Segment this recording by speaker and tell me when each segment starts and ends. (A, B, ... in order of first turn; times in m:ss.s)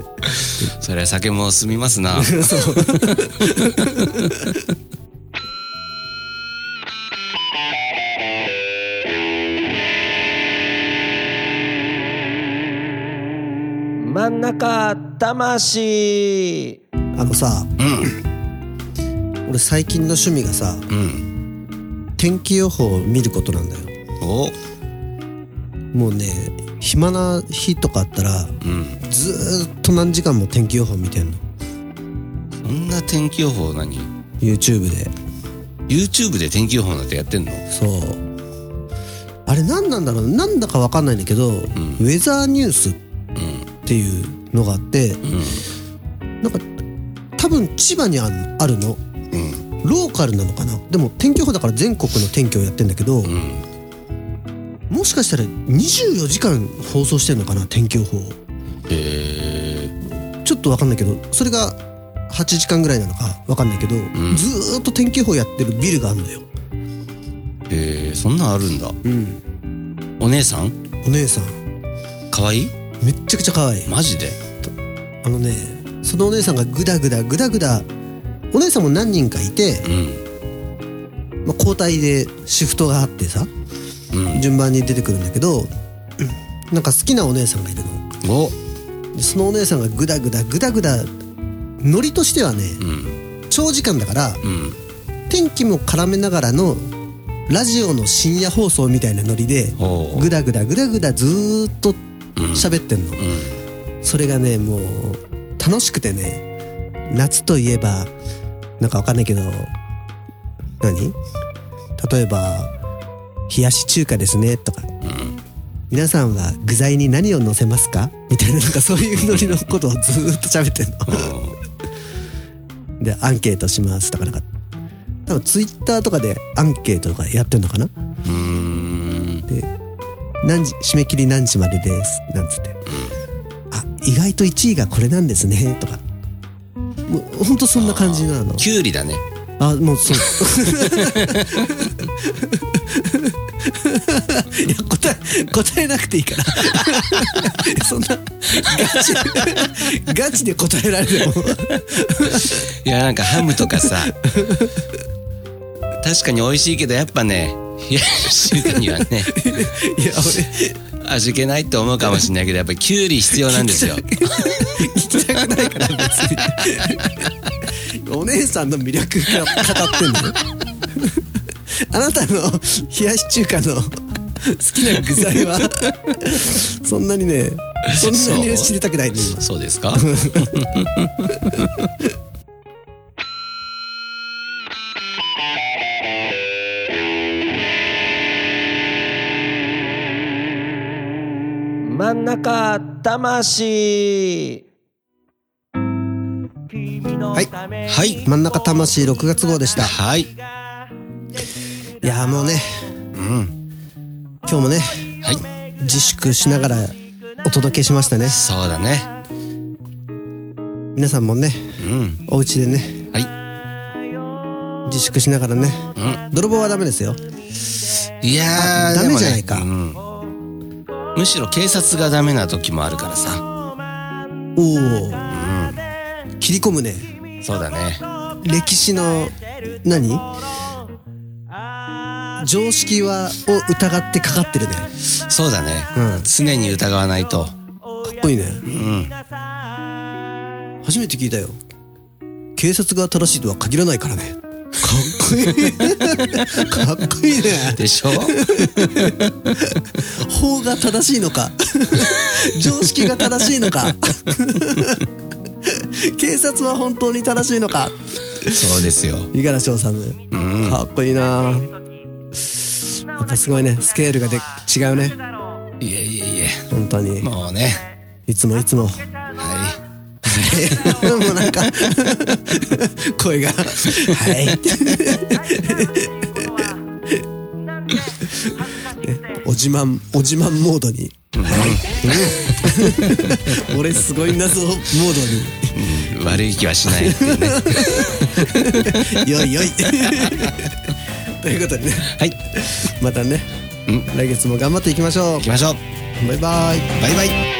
0:00.2-0:04.5 A
0:02.1-0:04.4 B
0:14.0-0:16.8 C
0:17.1-0:18.1 B
0:17.8-0:18.1 A
0:19.4-0:20.9 B
0:20.9-0:21.2 A
0:22.2-0:23.9 B
0:24.2-0:24.5 A
0:25.9-0:31.4 B
0:28.6-0:29.0 A
0:32.6-0:34.1 A
0:34.4-0:35.1 B
0:35.9-0:37.6 A
0:37.7-0:38.2 B
0:39.4-0:43.0 B
0:41.8-0:42.0 A
0:43.4-0:43.7 A
0:43.8-0:45.2 B
0:45.2-0:45.6 A
0:47.4-0:49.0 B
0:49.3-0:49.7 A
0:49.8-0:53.3 B
0:53.2-0:53.6 A
0:54.9-0:58.4 B
0:58.9-0:59.9 A
1:00.4-1:06.4 B
1:04.1-1:04.4 A
1:07.7-1:09.0 A
1:09.0-1:09.4 B
1:10.2-1:10.7 A
1:11.0-1:11.6 B
1:12.3-1:12.7 A
1:13.0-1:13.9 B
1:13.9-1:14.4 A
1:15.2-1:17.9 B
1:18.5-1:19.9 B
1:19.8-1:20.2 A
1:21.4-1:23.5 B
1:24.1-1:24.4 A
1:24.3-1:28.1 B
1:28.2-1:28.6 A
1:29.1-1:31.1 B
1:31.8-1:32.8 B
1:32.8-1:33.2 A
1:33.5-1:34.4 B
1:34.4-1:34.8 A
1:35.3-1:36.9 B
1:37.5-1:42.0 B
1:39.8-1:40.3 A
1:42.4-1:43.6 A
1:42.5-1:43.2 B
1:44.0-1:46.4 B
1:47.1-1:48.1 B
1:48.8-1:49.7 B
1:50.8-1:51.2 B
1:52.0-1:52.7 B
1:53.5-1:54.9 B
1:55.0-1:55.4 A
1:55.9-2:01.4 B
1:59.2-1:59.6 A
2:01.1-2:01.6 A
2:03.0-2:04.4 B
2:05.2-2:07.9 B
2:08.2-2:09.5 A
2:10.4-2:12.8 B
2:12.9-2:13.1 A
2:13.7-2:16.0 B
2:17.1-2:18.7 B
2:17.8-2:19.2 A
2:19.6-2:32.6 B
2:20.8-2:21.9 A
2:26.9-2:27.4 A
2:28.6-2:29.7 A
2:31.7-2:34.1 A
2:33.5-2:34.9 B
2:36.0-2:39.4 A
2:38.7-2:40.8 B
2:41.0-2:44.8 A
2:43.4-2:50.4 B
2:46.7-2:46.9 A
2:49.5-2:49.8 A
2:50.9-3:00.7 B
2:57.9-2:58.7 A
2:59.3-3:01.9 A
3:11.8-3:14.6 C
3:16.7-3:17.5 C
3:17.9-3:18.2 A
3:18.2-3:20.0 B
3:19.8-3:20.3 A
3:22.0-3:22.9 B
3:23.1-3:23.5 A
3:24.4-3:25.1 B
3:25.8-3:28.4 B
3:28.3-3:29.1 A
3:30.9-3:33.1 B
3:31.8-3:32.2 A
3:34.8-3:37.2 B
3:36.0-3:36.2 A
3:38.2-3:40.0 A
3:38.5-3:39.7 B
3:41.1-3:43.4 A
3:44.6-3:45.3 B
3:45.3-3:45.8 A
3:46.4-3:47.1 B
3:47.4-3:48.0 A
3:48.4-3:50.3 B
3:52.4-3:54.9 B
3:55.1-3:57.5 A
3:55.9-3:56.3 B
3:58.0-3:58.7 B
3:58.6-3:59.1 A
4:00.8-4:01.6 B
4:02.6-4:09.2 B
4:07.6-4:09.8 A
4:09.9-4:15.1 B
4:15.6-4:21.7 B
4:18.4-4:19.3 A
4:20.3-4:20.8 A
4:22.4-4:25.2 B
4:25.8-4:26.6 A
4:26.7-4:27.3 B
4:27.2-4:27.8 A
4:28.3-4:29.0 B
4:29.3-4:31.9 A
4:30.2-4:37.2 B
4:33.9-4:34.6 A
4:38.2-4:45.8 B
4:41.3-4:43.6 A
4:45.7-4:50.7 A
4:46.8-4:53.5 B
4:52.1-4:52.7 A
4:54.1-4:55.5 B
4:55.4-4:55.8 A
4:56.2-4:57.0 B
4:57.0-4:57.4 A